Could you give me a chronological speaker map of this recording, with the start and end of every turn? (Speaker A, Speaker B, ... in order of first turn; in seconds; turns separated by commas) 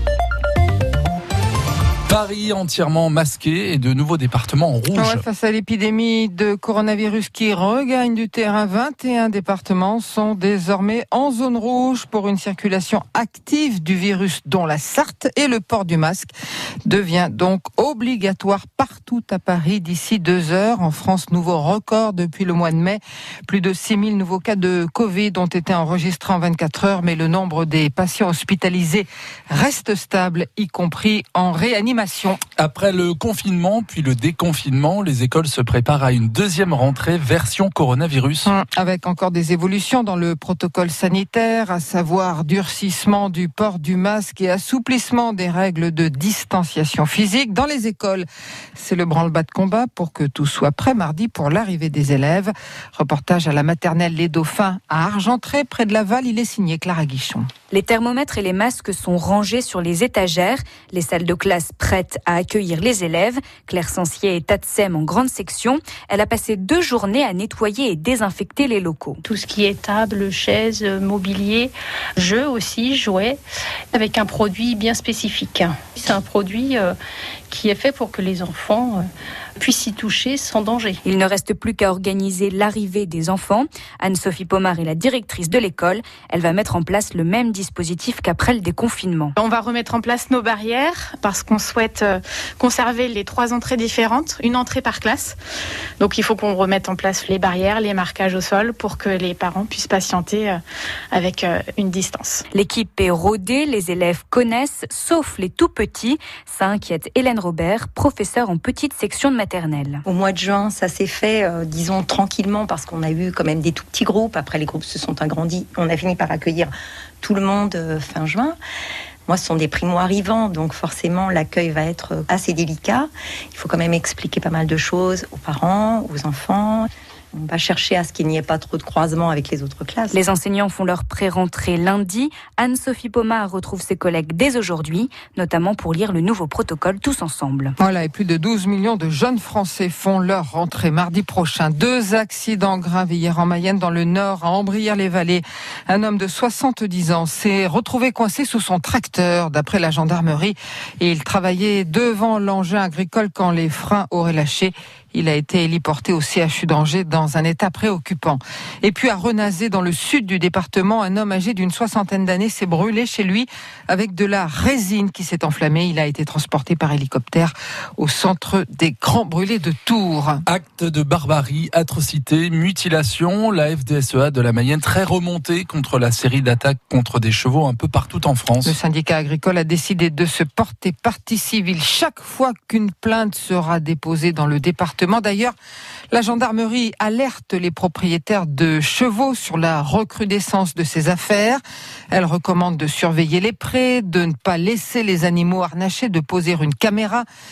Speaker A: 2.1-5.2, Speaker B: 5.0-16.3, Speaker B: 16.9-32.4, Speaker A: 32.6-38.5, Speaker B: 38.4-57.5, Speaker C: 57.7-69.2, Speaker D: 69.2-73.4, Speaker D: 73.9-77.0, Speaker D: 77.5-79.1, Speaker D: 79.6-81.0, Speaker C: 81.0-89.3, Speaker E: 89.4-95.4, Speaker E: 96.0-100.6, Speaker E: 101.1-102.4, Speaker C: 102.5-110.0, Speaker F: 110.1-118.6, Speaker F: 119.3-130.2, Speaker C: 130.1-137.8, Speaker B: 137.8-170.4, Speaker A: 170.5-178.8, Speaker B: 178.6-185.6, Speaker B: 186.1-191.6, Speaker B: 192.1-197.3